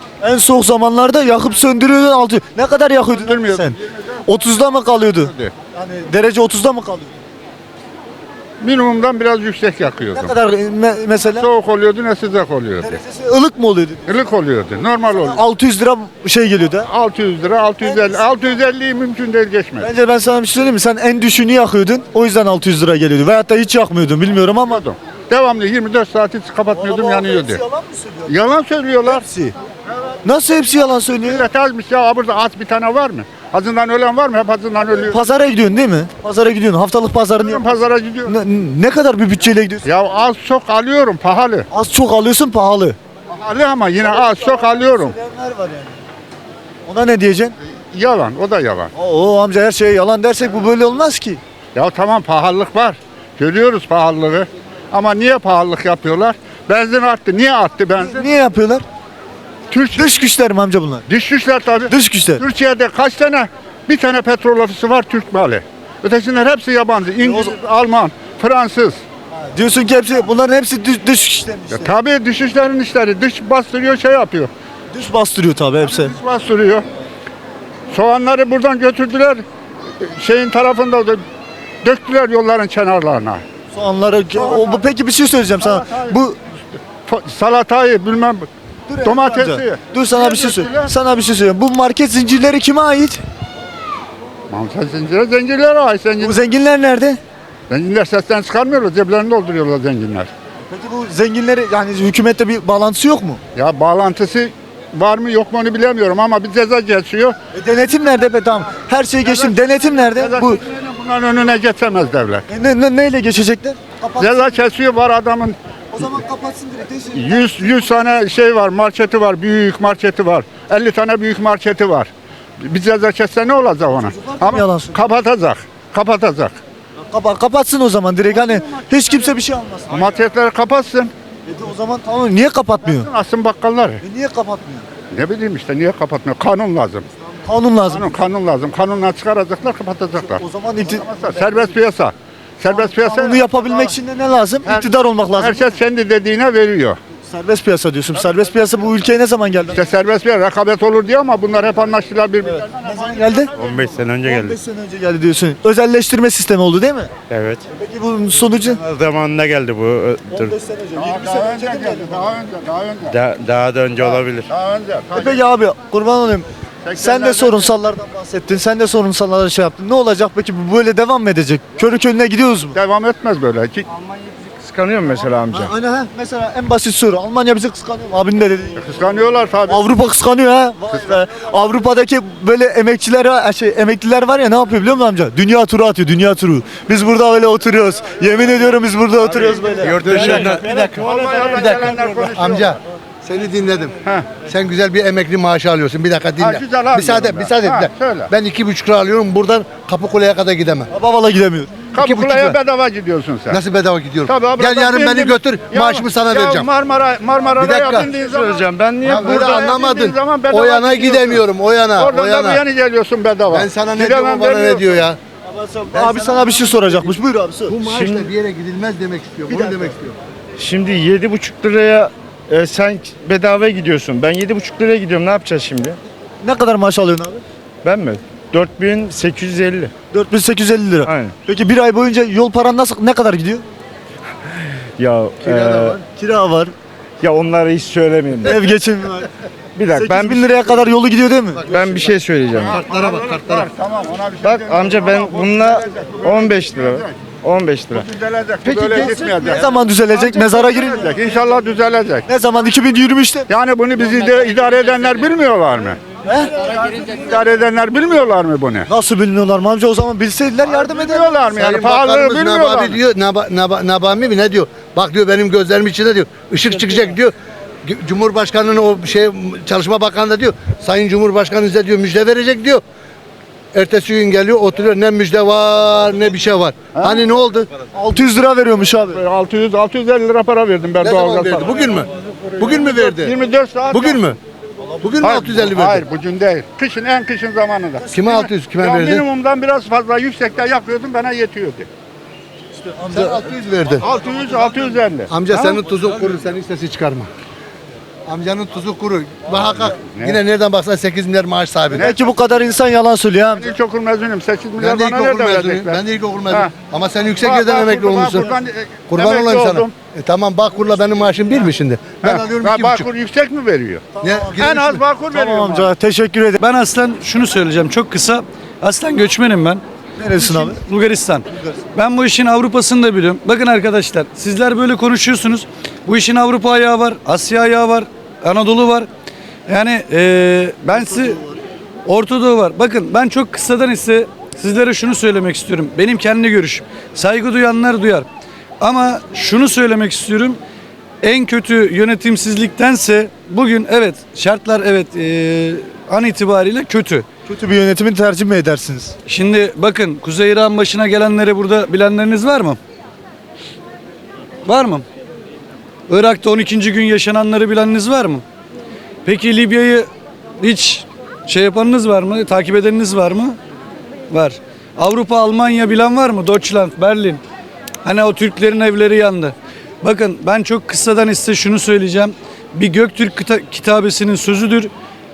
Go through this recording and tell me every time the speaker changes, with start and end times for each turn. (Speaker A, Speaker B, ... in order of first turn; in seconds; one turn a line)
Speaker A: 0.2-7.2
Speaker B: 3.1-3.8
Speaker B: 5.2-5.5
Speaker B: 8.6-10.3
Speaker A: 10.1-11.5
Speaker B: 11.4-13.0
Speaker A: 12.8-14.0
Speaker B: 14.1-15.4
Speaker A: 15.1-16.9
Speaker B: 16.8-19.9
Speaker A: 17.8-18.3
Speaker A: 19.8-24.8
Speaker B: 24.7-27.6
Speaker A: 26.7-28.4
Speaker B: 28.3-29.2
Speaker A: 29.0-29.5
Speaker A: 30.2-31.4
Speaker B: 31.2-35.1
Speaker A: 35.0-37.7
Speaker B: 37.4-38.3
Speaker A: 38.2-39.8
Speaker B: 39.8-41.7
Speaker A: 41.7-43.0
Speaker B: 43.3-45.1
Speaker A: 44.0-46.0
Speaker A: 46.9-47.5
Speaker B: 47.9-48.9
Speaker A: 48.9-51.4
Speaker B: 51.7-58.3
Speaker A: 58.0-58.8
Speaker B: 59.7-60.0
Speaker A: 60.0-61.0
Speaker B: 61.1-69.0
Speaker A: 61.9-62.4
Speaker A: 67.2-67.5
Speaker A: 69.5-71.9
Speaker B: 71.7-74.5
Speaker A: 74.9-76.1
Speaker B: 75.8-76.8
Speaker B: 77.9-79.4
Speaker B: 80.0-81.2
Speaker B: 81.8-83.4
Speaker A: 83.7-86.4
Speaker B: 84.3-84.8
Speaker B: 85.6-86.2
Speaker B: 87.0-88.5
Speaker A: 88.9-93.2
Speaker B: 89.0-90.9
Speaker B: 94.5-96.4
Speaker A: 96.2-97.2
Speaker B: 97.7-100.3
Speaker A: 100.7-103.4
Speaker B: 103.5-107.3
Speaker A: 107.5-110.6
Speaker B: 109.2-112.5
Speaker A: 112.5-114.6
Speaker B: 114.2-115.6
Speaker A: 115.9-118.0
Speaker B: 117.1-126.5
Speaker A: 124.0-125.0
Speaker A: 127.1-130.1
Speaker B: 129.9-131.1
Speaker A: 131.4-133.1
Speaker B: 132.8-134.0
Speaker A: 134.0-134.9
Speaker B: 135.1-137.1
Speaker A: 137.4-138.2
Speaker B: 137.9-143.9
Speaker A: 140.2-141.6
Speaker A: 142.7-145.7
Speaker B: 145.4-147.0
Speaker A: 147.2-149.8
Speaker B: 149.7-153.5
Speaker A: 152.8-153.5
Speaker C: 153.6-154.6
Speaker A: 154.2-157.1
Speaker C: 157.3-157.6
Speaker A: 157.7-158.8
Speaker C: 158.7-160.5
Speaker A: 160.3-162.3
Speaker B: 161.0-163.2
Speaker C: 163.1-164.5
Speaker B: 164.0-165.4
Speaker A: 165.1-172.8
Speaker B: 166.8-167.7
Speaker B: 172.7-173.9
Speaker C: 174.2-175.7
Speaker A: 175.5-178.8
Speaker B: 178.8-179.8
Speaker A: 179.7-190.1
Speaker C: 189.8-191.0
Speaker B: 189.8-192.7
Speaker D: 189.8-200.9
Speaker B: 194.0-194.3
Speaker B: 196.4-198.3
Speaker A: 200.9-201.9
Speaker B: 201.9-203.6
Speaker D: 202.0-202.6
Speaker D: 203.5-206.7
Speaker B: 204.2-211.4
Speaker D: 207.6-208.1
Speaker C: 208.2-209.6
Speaker D: 209.0-212.6
Speaker B: 212.0-214.8
Speaker D: 213.5-215.2
Speaker A: 215.5-217.8
Speaker D: 215.9-216.7
Speaker D: 217.7-220.2
Speaker C: 217.8-218.3
Speaker C: 220.6-226.0
Speaker A: 226.4-227.4
Speaker C: 227.8-229.9
Speaker A: 230.1-233.6
Speaker C: 231.0-231.3
Speaker C: 234.8-236.0
Speaker A: 235.7-236.7
Speaker C: 237.2-238.6
Speaker A: 238.4-239.3
Speaker C: 239.8-240.7
Speaker A: 239.9-241.7
Speaker C: 241.6-242.8
Speaker B: 242.6-247.1
Speaker D: 242.7-243.5
Speaker C: 244.4-248.1
Speaker B: 247.9-252.3
Speaker A: 248.7-251.2
Speaker A: 252.2-253.5
Speaker B: 253.5-256.0
Speaker A: 256.2-256.6
Speaker B: 256.6-258.9
Speaker A: 258.9-261.4
Speaker B: 260.6-263.0
Speaker D: 261.5-272.8
Speaker D: 273.7-277.7
Speaker B: 276.9-277.2
Speaker A: 277.9-279.2
Speaker B: 279.1-281.7
Speaker D: 281.0-283.3
Speaker B: 282.7-284.2
Speaker D: 283.9-284.4
Speaker D: 285.0-286.0
Speaker B: 285.2-291.9
Speaker D: 288.1-289.2
Speaker A: 292.9-293.4
Speaker D: 293.1-294.1
Speaker B: 294.0-295.6
Speaker D: 295.3-297.3
Speaker D: 298.3-302.1
Speaker B: 300.0-300.4
Speaker A: 301.9-303.7
Speaker B: 303.5-306.7
Speaker D: 304.8-308.5
Speaker B: 307.4-309.9
Speaker D: 309.1-313.1
Speaker B: 312.2-314.0
Speaker A: 314.2-316.6
Speaker D: 314.2-315.0
Speaker B: 314.6-315.9
Speaker E: 316.6-319.8
Speaker A: 320.2-320.8
Speaker E: 320.4-329.1
Speaker A: 321.5-321.8
Speaker E: 329.7-331.4
Speaker A: 331.1-331.4
Speaker E: 332.0-338.2
Speaker E: 338.8-340.6
Speaker E: 341.2-347.2
Speaker A: 347.5-349.1
Speaker E: 349.2-352.8
Speaker E: 354.6-355.0
Speaker E: 356.1-358.4
Speaker E: 359.2-360.1
Speaker E: 360.6-363.6
Speaker E: 364.3-367.4
Speaker E: 368.0-374.9